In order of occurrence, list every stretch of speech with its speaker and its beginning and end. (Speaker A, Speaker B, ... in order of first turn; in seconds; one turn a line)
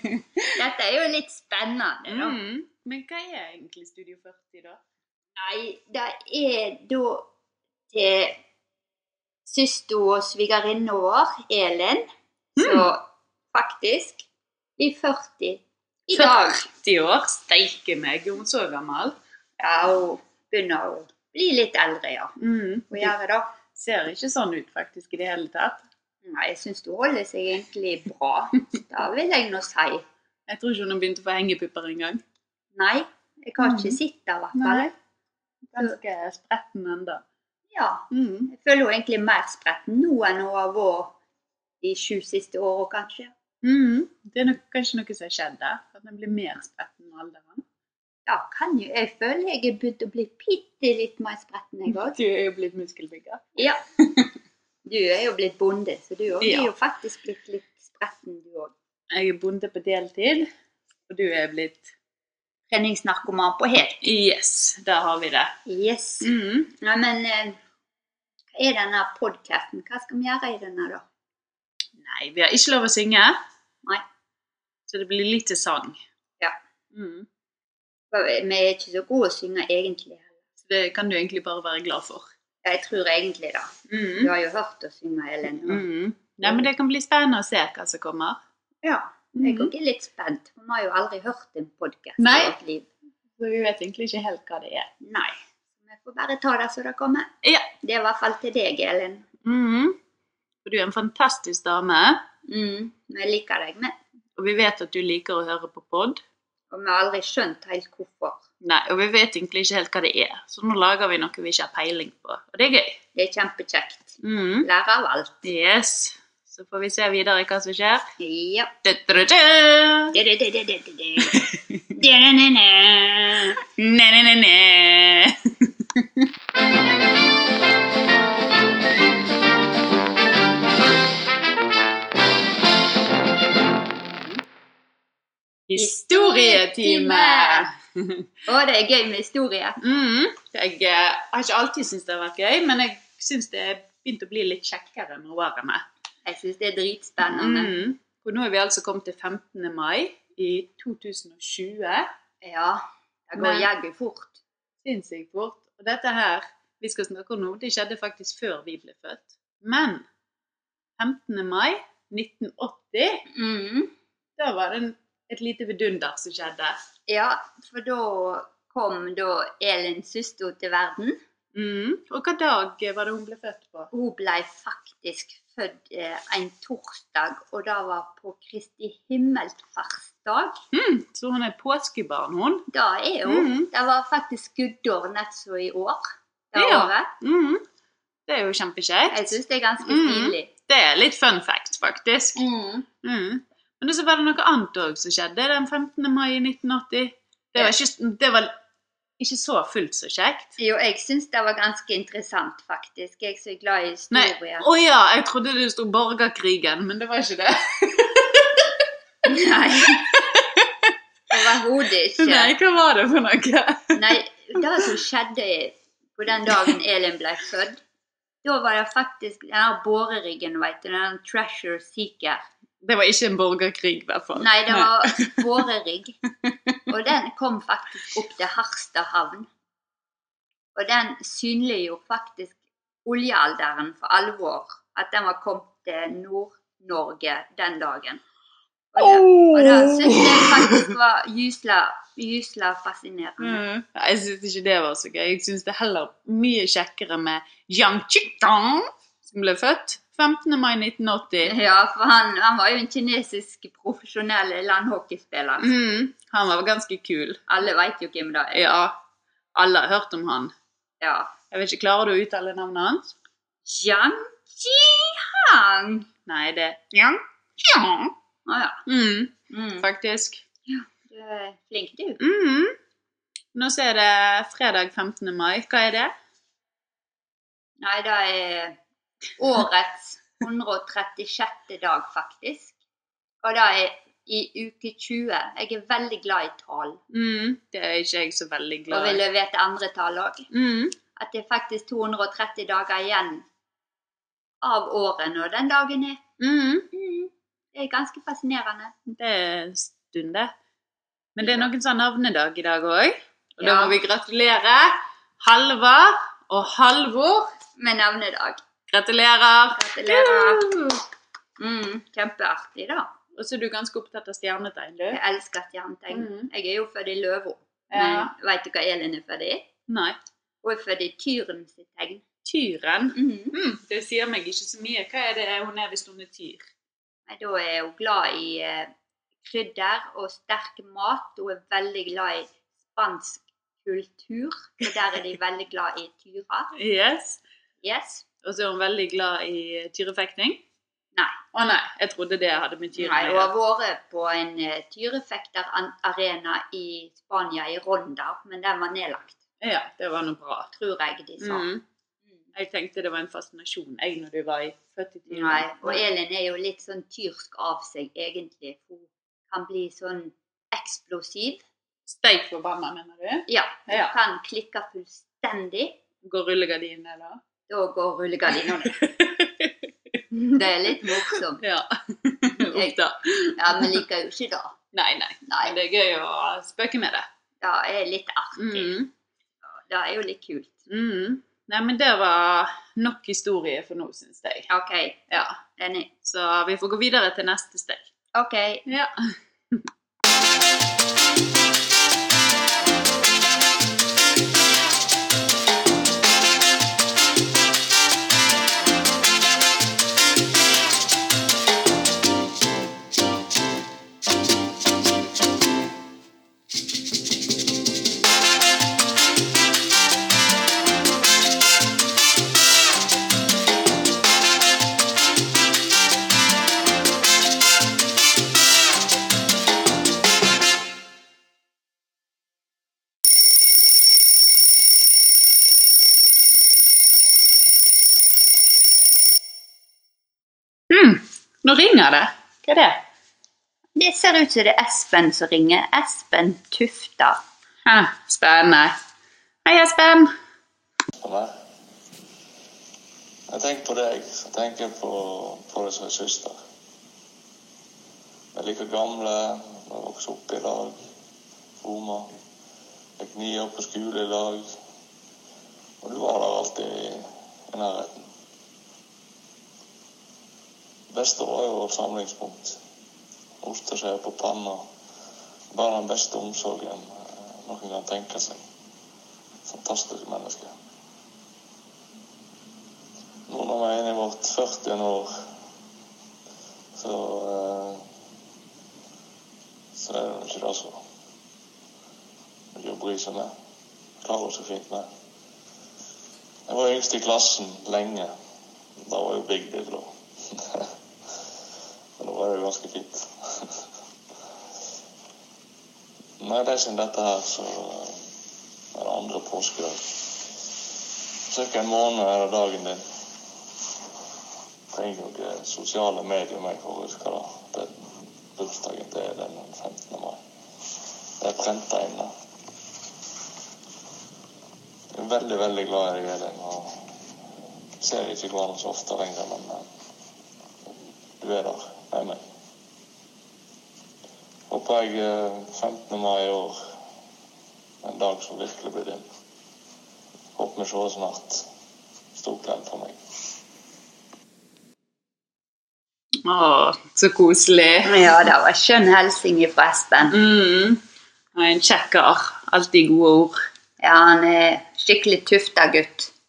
Speaker A: 0.5-2.4
Speaker B: 2.1-4.8
Speaker A: 5.4-7.2
Speaker A: 7.9-8.4
Speaker A: 9.4-13.0
Speaker B: 12.6-12.9
Speaker A: 13.5-14.2
Speaker A: 14.8-16.6
Speaker B: 16.1-19.1
Speaker A: 19.6-22.3
Speaker B: 22.4-23.1
Speaker A: 22.9-23.5
Speaker B: 23.7-25.8
Speaker A: 26.2-30.0
Speaker B: 30.5-32.2
Speaker A: 32.7-34.9
Speaker B: 33.6-34.0
Speaker B: 34.5-34.9
Speaker B: 35.7-37.2
Speaker A: 37.7-41.1
Speaker B: 38.1-38.5
Speaker A: 41.8-43.3
Speaker B: 43.6-47.6
Speaker A: 48.3-52.1
Speaker B: 51.9-53.6
Speaker A: 54.9-58.7
Speaker B: 56.4-56.7
Speaker B: 59.1-60.5
Speaker B: 61.1-61.9
Speaker A: 62.7-64.0
Speaker B: 64.0-65.5
Speaker A: 65.7-67.6
Speaker B: 66.2-66.7
Speaker A: 68.5-71.0
Speaker B: 72.0-73.4
Speaker B: 74.9-76.0
Speaker B: 76.9-77.3
Speaker A: 78.1-80.3
Speaker B: 80.6-82.3
Speaker A: 82.6-85.8
Speaker B: 83.9-84.3
Speaker B: 85.6-88.4
Speaker A: 88.8-92.9
Speaker B: 89.3-89.7
Speaker B: 92.2-92.5
Speaker B: 93.4-94.9
Speaker A: 95.0-97.3
Speaker A: 97.8-99.2
Speaker B: 99.4-100.0
Speaker B: 100.6-102.2
Speaker A: 102.5-103.9
Speaker B: 104.4-106.2
Speaker A: 106.7-108.4
Speaker B: 108.6-113.0
Speaker A: 113.2-114.1
Speaker B: 114.2-114.7
Speaker A: 114.6-115.4
Speaker B: 115.4-118.0
Speaker A: 118.2-118.7
Speaker B: 118.8-120.1
Speaker A: 120.1-121.4
Speaker B: 121.2-121.6
Speaker A: 122.0-123.6
Speaker B: 123.7-126.0
Speaker B: 135.7-138.2
Speaker A: 135.8-137.7
Speaker A: 138.5-139.8
Speaker B: 139.8-145.8
Speaker A: 146.2-147.7
Speaker B: 147.2-152.1
Speaker A: 152.4-154.4
Speaker B: 153.4-153.7
Speaker B: 154.8-160.0
Speaker B: 161.0-163.2
Speaker A: 163.3-163.9
Speaker B: 164.4-166.8
Speaker A: 167.1-171.2
Speaker B: 171.5-173.9
Speaker A: 173.9-180.6
Speaker B: 180.7-182.7
Speaker A: 182.7-187.1
Speaker B: 183.2-183.7
Speaker B: 186.5-187.6
Speaker B: 188.3-192.4
Speaker A: 189.1-190.5
Speaker A: 192.3-192.8
Speaker B: 193.0-198.5
Speaker B: 199.2-200.6
Speaker A: 200.6-204.7
Speaker B: 204.1-208.7
Speaker A: 209.2-210.1
Speaker B: 210.0-210.9
Speaker A: 211.3-212.5
Speaker B: 212.2-214.2
Speaker A: 213.9-217.8
Speaker A: 218.4-222.4
Speaker B: 222.8-225.4
Speaker A: 224.3-226.2
Speaker A: 226.9-229.5
Speaker A: 230.7-232.5
Speaker A: 233.1-238.2
Speaker A: 238.9-243.6
Speaker B: 239.0-240.9
Speaker B: 243.4-251.5
Speaker A: 251.4-255.7
Speaker B: 255.6-257.4
Speaker A: 257.5-258.7
Speaker B: 258.5-258.9
Speaker B: 259.5-260.5
Speaker A: 261.0-261.3
Speaker B: 261.5-263.1
Speaker A: 263.6-266.1
Speaker B: 266.3-268.1
Speaker A: 268.4-268.8
Speaker B: 268.9-270.4
Speaker A: 269.5-269.9
Speaker A: 270.7-272.2
Speaker B: 272.2-272.7
Speaker B: 273.5-276.1
Speaker A: 277.8-278.8
Speaker A: 279.4-282.8
Speaker A: 283.4-287.0
Speaker B: 287.1-289.2
Speaker A: 288.9-290.5
Speaker B: 290.5-290.9
Speaker A: 291.1-293.4
Speaker A: 294.6-296.2
Speaker B: 296.4-296.9
Speaker A: 296.9-298.9
Speaker B: 299.1-300.5
Speaker B: 301.4-307.5
Speaker A: 303.6-303.9
Speaker A: 307.8-308.6
Speaker B: 308.9-311.0
Speaker A: 309.7-310.6
Speaker A: 311.6-313.1
Speaker B: 313.3-315.2
Speaker A: 315.1-319.7
Speaker B: 316.1-316.5
Speaker B: 317.9-318.3
Speaker B: 319.9-320.2
Speaker A: 320.6-322.2
Speaker B: 322.4-326.7
Speaker A: 323.1-323.5
Speaker A: 327.3-328.9
Speaker A: 329.4-336.7
Speaker B: 336.7-337.4
Speaker A: 337.8-338.2
Speaker B: 338.4-340.6
Speaker B: 341.5-343.5
Speaker A: 343.0-349.4
Speaker B: 349.6-350.7
Speaker A: 350.7-351.7
Speaker B: 351.4-351.8
Speaker B: 352.5-356.0
Speaker A: 355.3-361.6
Speaker B: 362.1-364.1
Speaker A: 363.5-366.0
Speaker B: 366.2-367.4
Speaker A: 367.7-369.0
Speaker B: 368.9-369.8
Speaker B: 370.3-374.0
Speaker A: 370.5-371.6
Speaker A: 372.6-372.9
Speaker A: 373.6-374.8
Speaker B: 374.9-377.2
Speaker A: 375.4-375.8
Speaker A: 377.6-379.0
Speaker B: 378.6-379.1
Speaker A: 379.9-380.7
Speaker B: 380.9-384.7
Speaker A: 384.7-386.1
Speaker B: 386.2-388.0
Speaker A: 388.3-388.9
Speaker B: 388.9-389.1
Speaker B: 430.9-433.0
Speaker A: 433.9-437.4
Speaker B: 437.9-439.0
Speaker B: 439.6-440.3
Speaker C: 441.2-441.5
Speaker C: 443.5-446.6
Speaker C: 448.5-451.1
Speaker C: 451.8-452.4
Speaker C: 453.2-454.7
Speaker C: 456.0-458.3
Speaker C: 461.1-462.8
Speaker C: 463.6-464.9
Speaker C: 465.7-468.6
Speaker C: 469.6-470.7
Speaker C: 473.5-475.4
Speaker C: 476.9-478.0
Speaker C: 479.9-481.0
Speaker C: 482.7-483.5
Speaker C: 484.2-485.1
Speaker C: 486.7-488.3
Speaker C: 489.0-490.9
Speaker C: 492.2-493.8
Speaker C: 496.4-498.2
Speaker C: 498.9-500.2
Speaker C: 501.5-503.0
Speaker C: 504.9-507.9
Speaker C: 508.6-510.4
Speaker C: 511.4-512.3
Speaker C: 515.1-517.0
Speaker C: 518.0-519.9
Speaker C: 521.4-522.4
Speaker C: 524.7-526.8
Speaker C: 528.0-529.2
Speaker C: 530.5-531.6
Speaker C: 532.3-533.2
Speaker B: 536.4-538.1
Speaker A: 538.0-540.4
Speaker B: 540.3-541.0
Speaker B: 541.5-543.6
Speaker A: 544.0-546.3